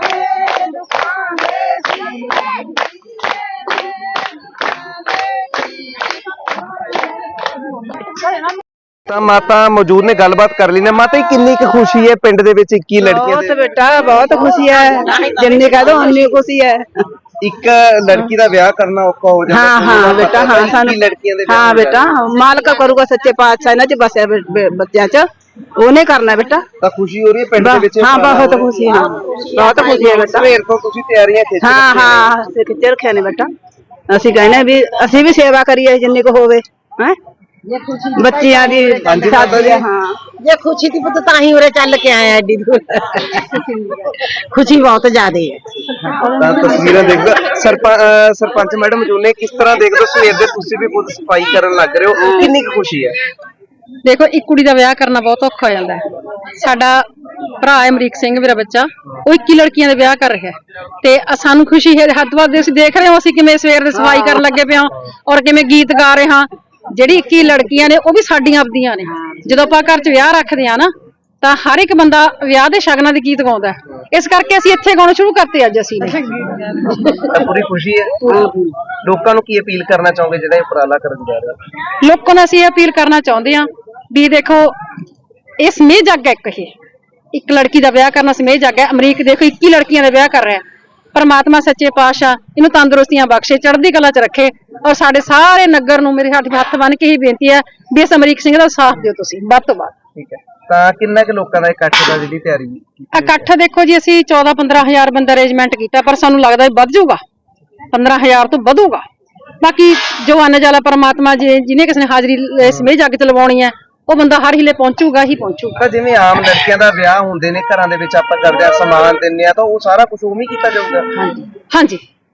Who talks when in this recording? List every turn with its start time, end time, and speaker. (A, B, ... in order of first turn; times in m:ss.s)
0:01.0-0:01.8 A
0:09.1-0:13.5 B
0:13.0-0:16.8 A
0:17.4-0:22.1 B
0:19.5-0:25.2 A
0:25.8-0:26.6 A
0:26.8-0:28.8 B
0:27.6-0:30.5 A
0:29.2-0:29.9 C
0:30.0-0:32.3 B
0:31.6-0:33.5 A
0:34.1-0:37.2 A
0:37.8-0:40.2 A
0:39.0-0:39.8 B
0:40.4-0:46.0 C
0:46.2-0:53.2 B
0:52.2-0:52.5 A
0:54.0-0:57.0 D
0:57.6-1:16.4 D
1:03.9-1:04.4 A
1:17.0-1:21.6 B
1:22.0-1:24.7 D
1:25.6-1:26.7 D
1:27.3-1:30.6 D
1:31.1-1:39.9 D
1:40.1-1:43.5 B
1:43.1-1:47.2 D
1:47.9-1:49.0 D
1:49.6-1:55.8 D
1:52.6-1:52.9 B
1:55.8-2:01.2 B
2:01.7-2:02.0 D